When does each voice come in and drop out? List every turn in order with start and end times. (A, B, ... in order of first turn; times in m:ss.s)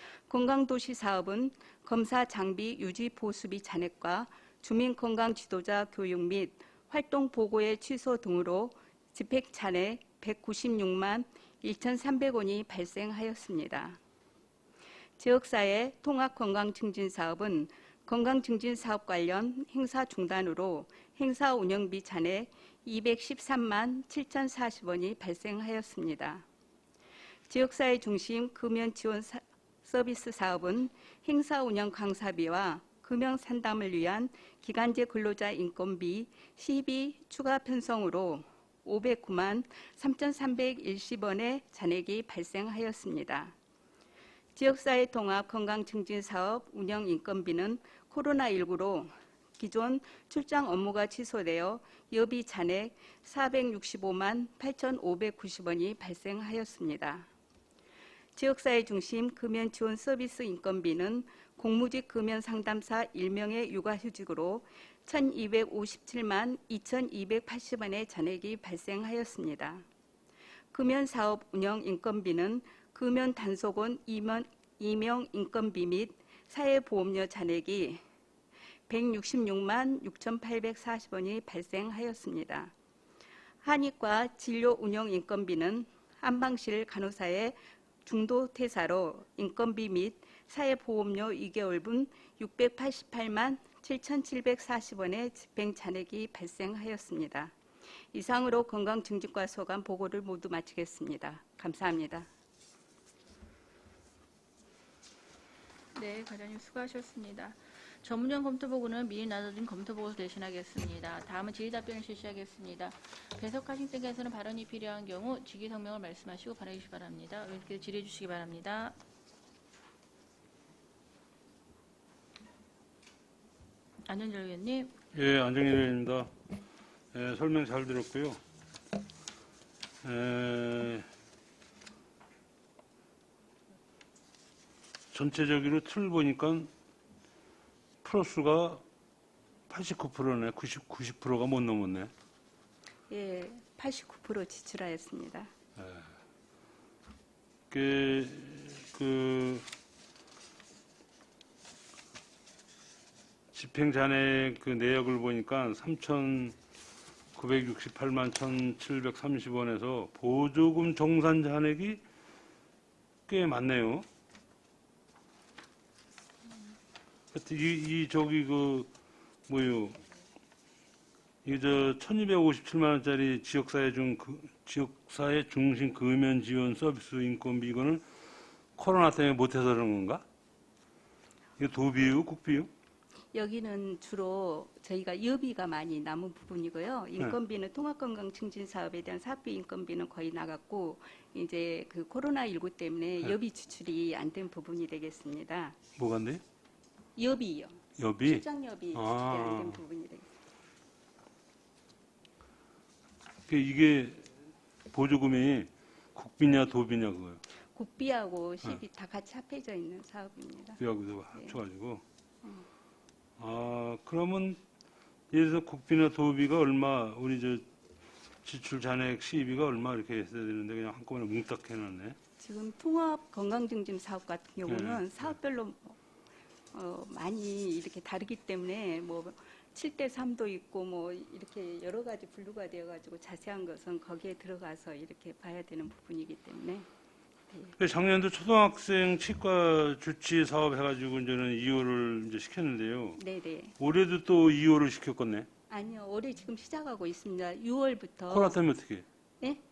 0:00.3-0:14.0 A
0:15.2-0:26.4 A
0:27.5-0:43.5 A
0:44.5-0:57.3 A
0:58.3-1:09.8 A
1:10.7-1:18.0 A
1:18.9-1:22.7 A
1:23.6-1:37.5 A
1:38.1-1:42.3 A
1:45.9-1:59.0 B
2:04.0-2:04.9 B
2:05.1-2:06.3 C
2:07.1-2:08.4 C
2:10.0-2:11.0 C
2:15.1-2:16.7 C
2:18.0-2:18.8 C
2:19.7-2:22.1 C
2:23.1-2:25.5 A
2:25.8-2:26.1 C
2:27.7-2:29.7 C
2:33.5-2:36.5 C
2:37.3-2:42.0 C
2:43.3-2:44.0 C
2:47.3-2:48.9 C
2:49.5-2:50.0 C
2:51.4-2:58.0 C
2:58.8-3:00.2 C
3:01.6-3:02.7 C
3:03.3-3:15.8 A
3:16.0-3:16.4 C
3:17.2-3:20.3 A
3:18.0-3:18.4 C
3:18.9-3:19.8 C
3:23.5-3:24.3 C
3:24.9-3:27.4 C
3:27.7-3:30.8 A
3:30.8-3:32.0 C
3:31.3-3:31.6 A
3:33.4-3:34.6 C
3:35.3-3:37.6 C
3:38.4-3:42.2 C
3:42.4-3:46.0 A
3:44.7-3:45.3 C
3:46.7-3:56.9 A
3:57.5-3:57.7 A
3:57.8-4:03.2 C
4:03.2-4:03.7 A
4:03.8-4:05.5 C
4:05.7-4:08.6 A
4:08.3-4:09.0 C